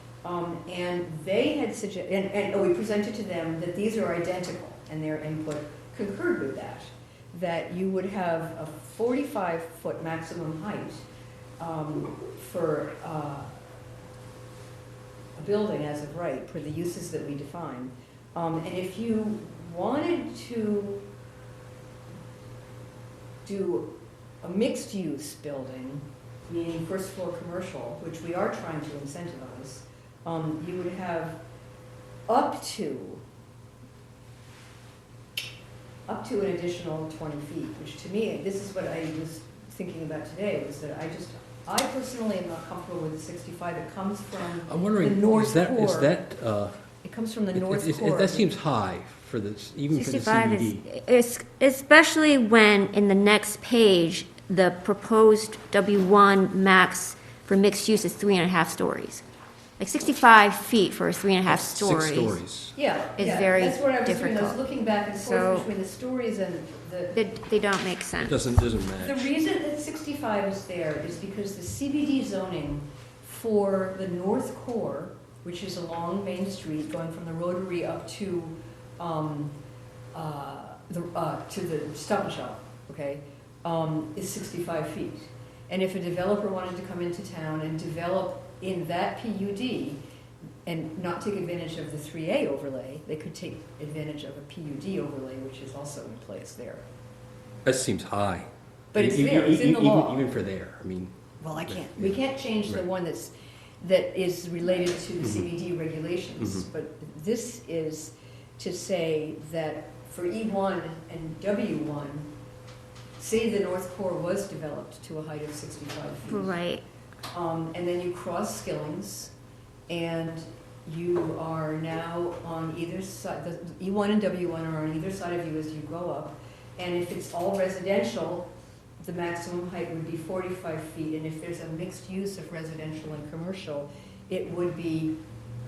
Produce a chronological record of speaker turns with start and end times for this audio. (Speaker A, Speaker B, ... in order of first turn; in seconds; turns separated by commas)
Speaker A: 0.2-11.0, Speaker A: 11.6-13.7, Speaker A: 15.3-21.0, Speaker A: 23.4-31.4, Speaker A: 32.3-33.2, Speaker A: 36.1-46.1, Speaker B: 44.6-46.7, Speaker A: 47.0-48.6, Speaker B: 47.5-50.8, Speaker C: 49.9-59.2, Speaker C: 59.8-62.4, Speaker B: 61.5-62.7, Speaker A: 62.7-67.2, Speaker C: 63.2-64.6, Speaker C: 65.2-65.7, Speaker C: 67.1-68.4, Speaker B: 68.2-69.3, Speaker A: 69.0-79.5, Speaker A: 80.1-90.0, Speaker A: 90.7-96.8, Speaker B: 97.6-101.1, Speaker A: 98.9-100.3, Speaker A: 101.4-112.3, Speaker B: 101.7-102.2, Speaker A: 113.2-116.6, Speaker C: 116.3-116.8, Speaker A: 117.3-119.3, Speaker A: 119.9-128.5, Speaker A: 129.0-135.2